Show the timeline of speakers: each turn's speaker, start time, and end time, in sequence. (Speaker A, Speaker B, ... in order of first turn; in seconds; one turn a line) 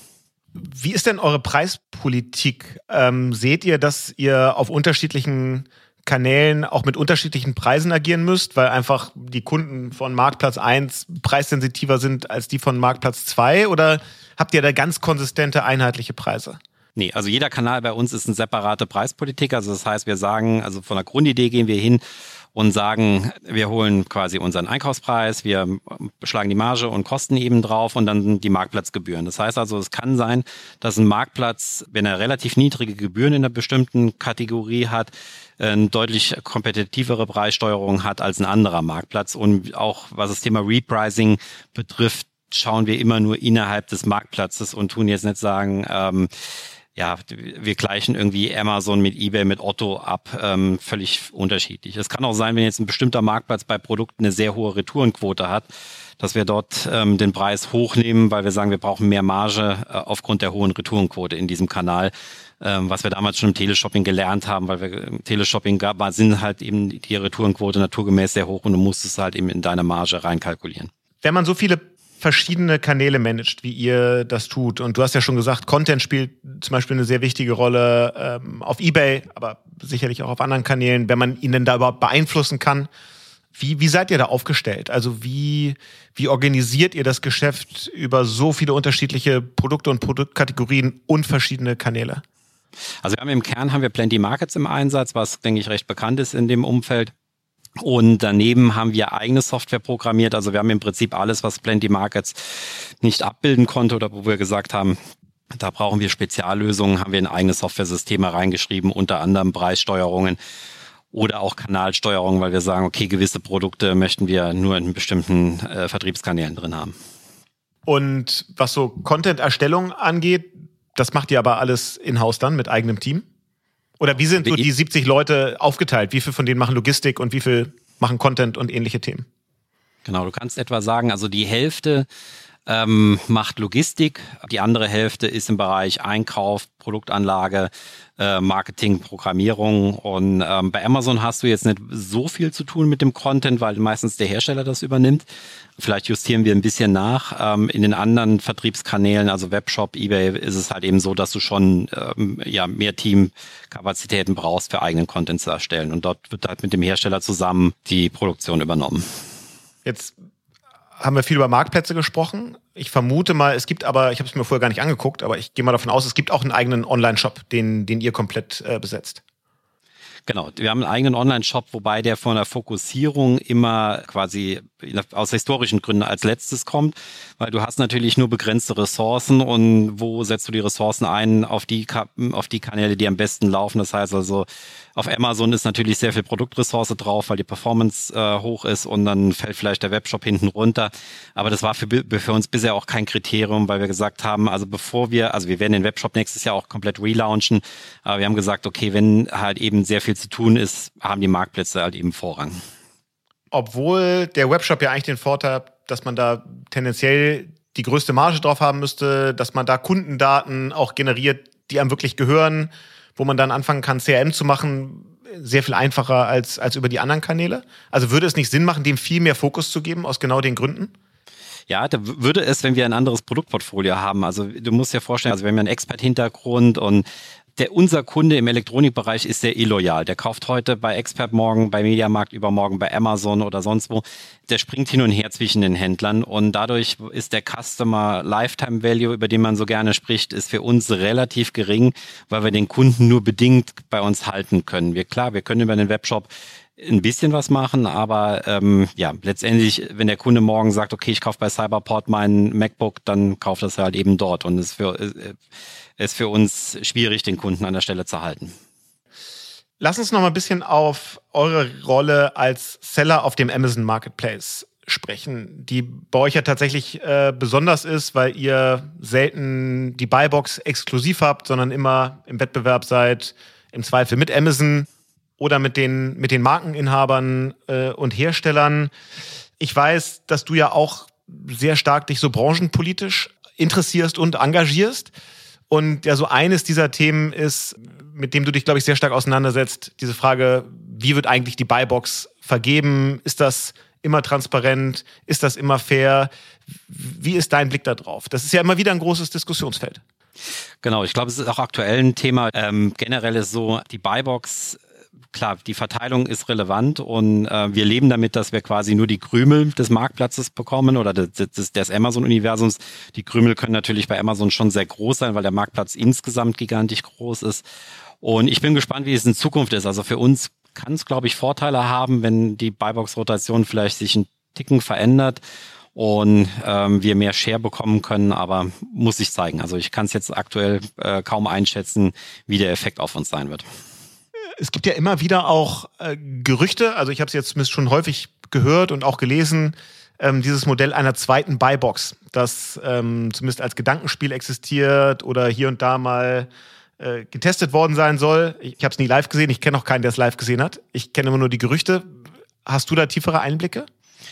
Speaker A: 0.6-16.6
Speaker B: 17.0-22.0
Speaker B: 22.5-55.7
Speaker B: 56.2-70.9
Speaker A: 71.2-82.9
Speaker A: 83.6-92.2
Speaker B: 93.0-97.1
Speaker B: 97.8-105.0
Speaker B: 105.5-110.4
Speaker B: 111.1-116.9
Speaker A: 117.9-123.2
Speaker A: 124.0-129.3
Speaker B: 130.1-132.1
Speaker B: 132.7-145.3
Speaker B: 145.8-159.1
Speaker A: 159.8-160.2
Speaker A: 161.0-169.2
Speaker B: 170.3-202.6
Speaker A: 203.5-220.9
Speaker B: 221.7-255.4
Speaker B: 256.0-258.5
Speaker A: 259.8-274.9
Speaker A: 275.4-278.9
Speaker A: 279.6-285.1
Speaker A: 285.7-296.3
Speaker A: 296.9-300.0
Speaker B: 300.8-304.8
Speaker B: 305.3-317.6
Speaker B: 318.2-325.4
Speaker B: 325.9-333.7
Speaker A: 334.6-346.5
Speaker A: 347.0-352.1
Speaker A: 352.7-353.9